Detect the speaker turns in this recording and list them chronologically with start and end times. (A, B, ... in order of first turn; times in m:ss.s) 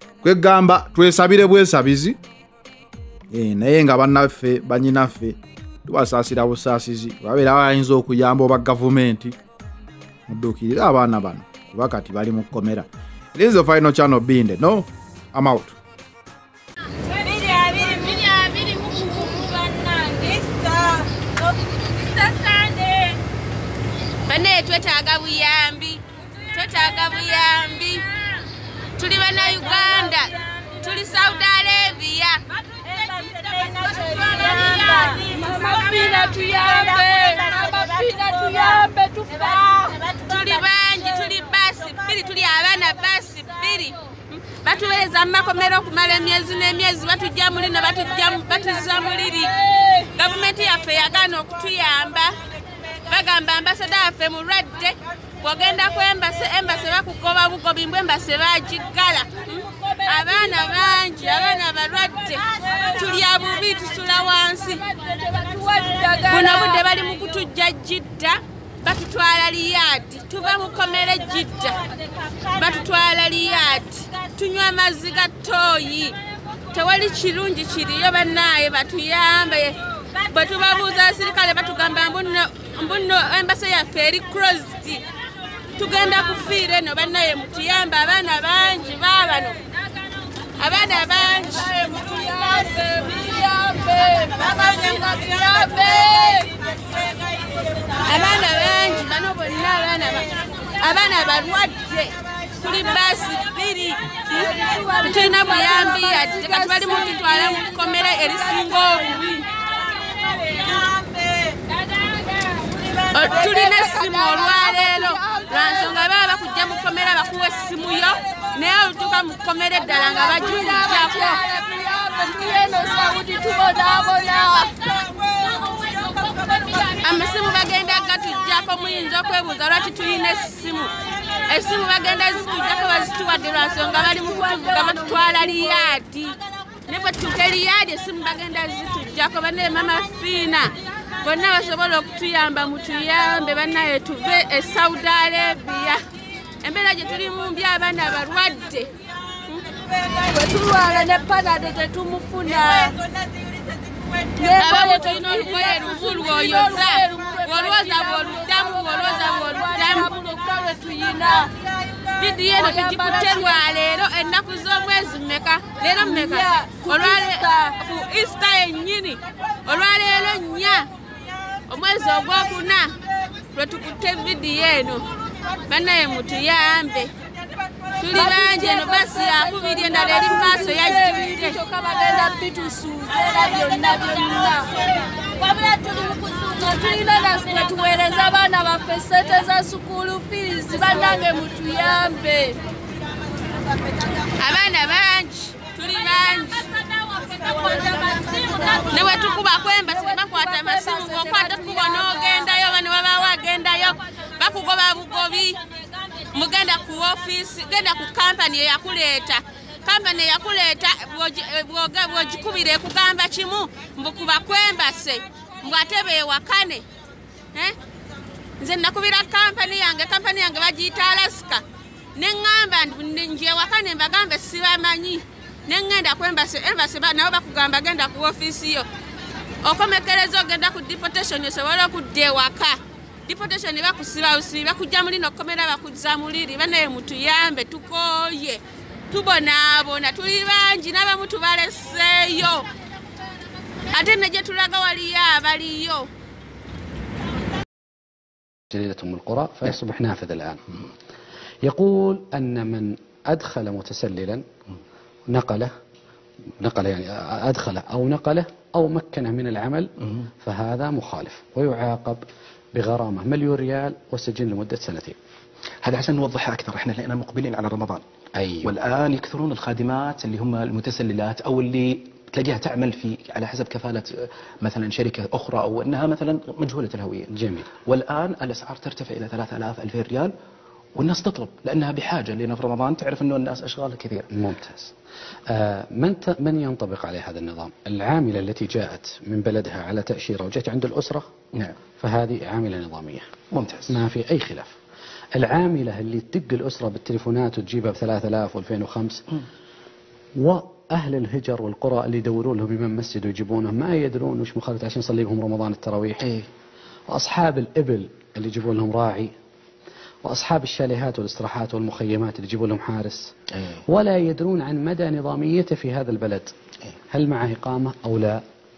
0:00.2-0:02.2 A
0:03.3-0:09.4 A
0:10.3-0:15.8 A
0:17.2-0:21.0 B
0:22.0-0:23.2 B
0:24.3-0:28.0 B
0:29.0-0:35.5 B
0:33.7-0:40.2 C
0:40.1-0:52.4 B
0:53.1-1:04.8 B
0:59.5-1:01.0 C
1:04.8-1:06.9 C
1:06.3-1:11.8 B
1:12.4-1:16.2 B
1:16.7-1:25.0 B
1:25.8-1:29.6 B
1:30.6-1:31.7 B
1:31.6-1:36.6 C
1:37.9-1:44.2 B
1:44.3-1:49.3 C
1:45.1-1:49.5 B
1:50.5-1:50.9 C
1:52.0-1:52.7 C
1:53.0-2:01.4 B
1:53.5-1:55.9 C
1:59.9-2:07.0 C
2:07.0-2:10.9 B
2:11.5-2:26.0 B
2:13.8-2:15.8 C
2:26.6-2:28.9 B
2:30.2-2:33.0 C
2:34.4-2:41.5 C
2:34.6-2:40.2 B
2:42.1-2:50.9 B
2:42.5-2:43.6 C
2:46.0-2:47.7 C
2:51.7-2:53.0 B
2:53.5-2:55.1 B
2:55.7-2:57.1 B
2:58.0-3:01.6 B
2:58.1-3:12.6 C
3:14.4-3:16.7 B
3:17.2-3:19.3 C
3:18.9-3:25.6 B
3:20.2-3:22.5 C
3:26.3-3:36.8 B
3:38.6-3:41.6 B
3:42.2-3:48.9 B
3:49.6-4:02.7 B
4:03.9-4:06.1 B
4:08.7-4:10.8 D
4:11.6-4:14.4 D
4:15.3-4:15.7 D
4:16.6-4:19.9 D
4:20.4-4:22.2 D
4:22.8-4:25.2 D
4:25.8-4:28.0 E
4:28.4-4:28.7 D
4:28.6-4:40.3 E
4:37.4-4:37.7 D
4:41.0-4:44.3 E
4:44.3-4:44.9 D
4:45.5-4:51.3 D
4:52.0-4:53.3 D
4:53.5-4:53.9 E
4:53.9-4:54.7 D
4:55.4-4:59.2 D
5:00.4-5:06.3 D
5:07.1-5:09.3 D
5:10.2-5:13.3 D
5:13.9-5:16.5 D
5:17.1-5:18.4 D